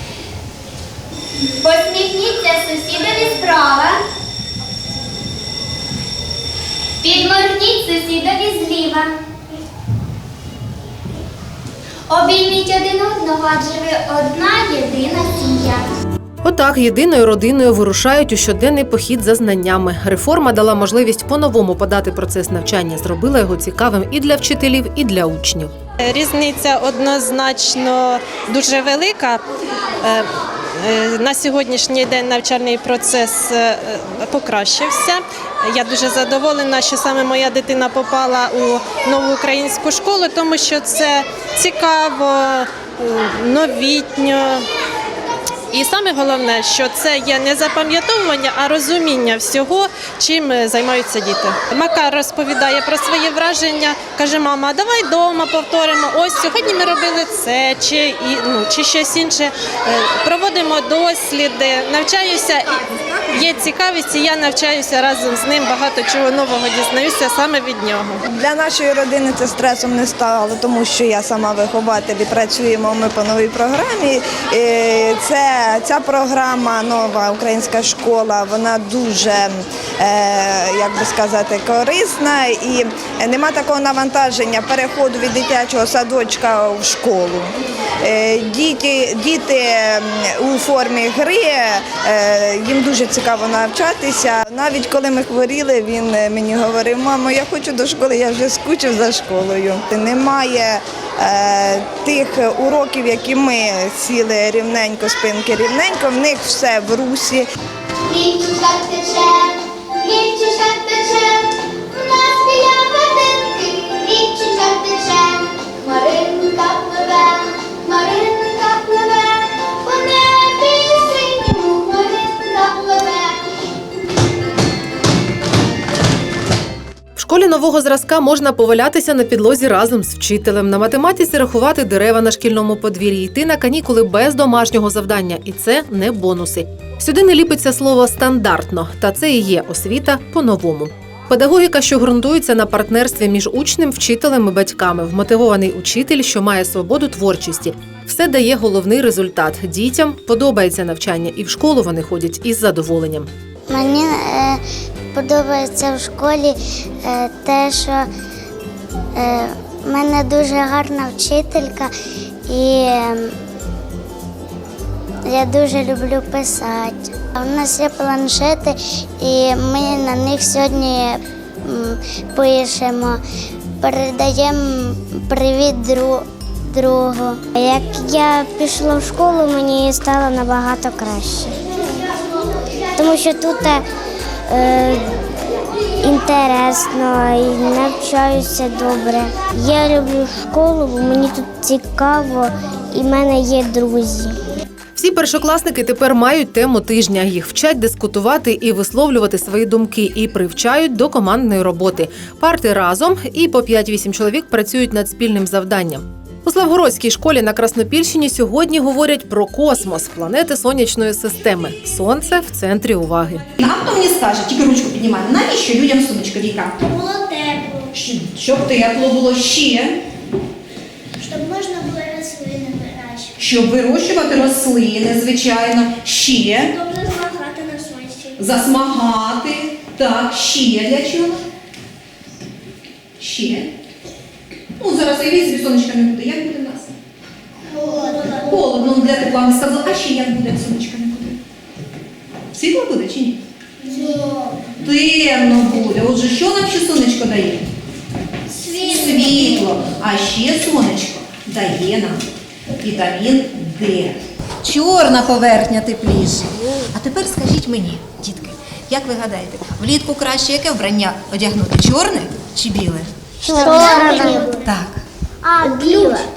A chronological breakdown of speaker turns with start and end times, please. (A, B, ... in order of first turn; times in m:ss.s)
0:01.6-0:04.0 A
0:07.0-0:09.1 A
0:12.1-0:15.8 A
0:16.4-0:25.7 B
0:26.0-0:29.4 A
0:30.8-0:44.6 A
0:45.7-1:02.8 A
1:02.6-1:03.7 C
1:03.3-1:08.1 A
1:08.3-1:27.5 D
1:28.0-1:47.4 D
2:07.2-2:33.3 B
2:33.7-2:34.6 E
2:35.1-2:36.5 E
2:37.0-2:38.0 E
2:39.2-2:41.9 E
2:42.5-2:43.2 E
2:45.2-2:53.2 E
2:53.8-3:01.6 E
3:03.0-3:03.8 E
3:04.5-3:05.0 E
3:06.0-3:14.3 E
3:15.0-3:33.4 B
3:33.6-3:36.8 C
3:36.9-3:37.6 F
3:37.9-3:40.0 C
3:41.2-3:43.2 F
3:43.4-3:46.8 C
3:46.8-3:48.1 F
3:48.4-3:51.4 C
3:53.2-3:53.7 C
3:54.8-3:56.9 C
3:58.3-4:01.4 C
4:02.5-4:03.4 C
4:04.8-4:07.6 C
4:08.6-4:12.2 C
4:12.8-4:23.1 C
4:23.5-4:24.4 E
4:23.6-4:24.9 C
4:23.8-4:24.5 F
4:25.6-4:26.1 F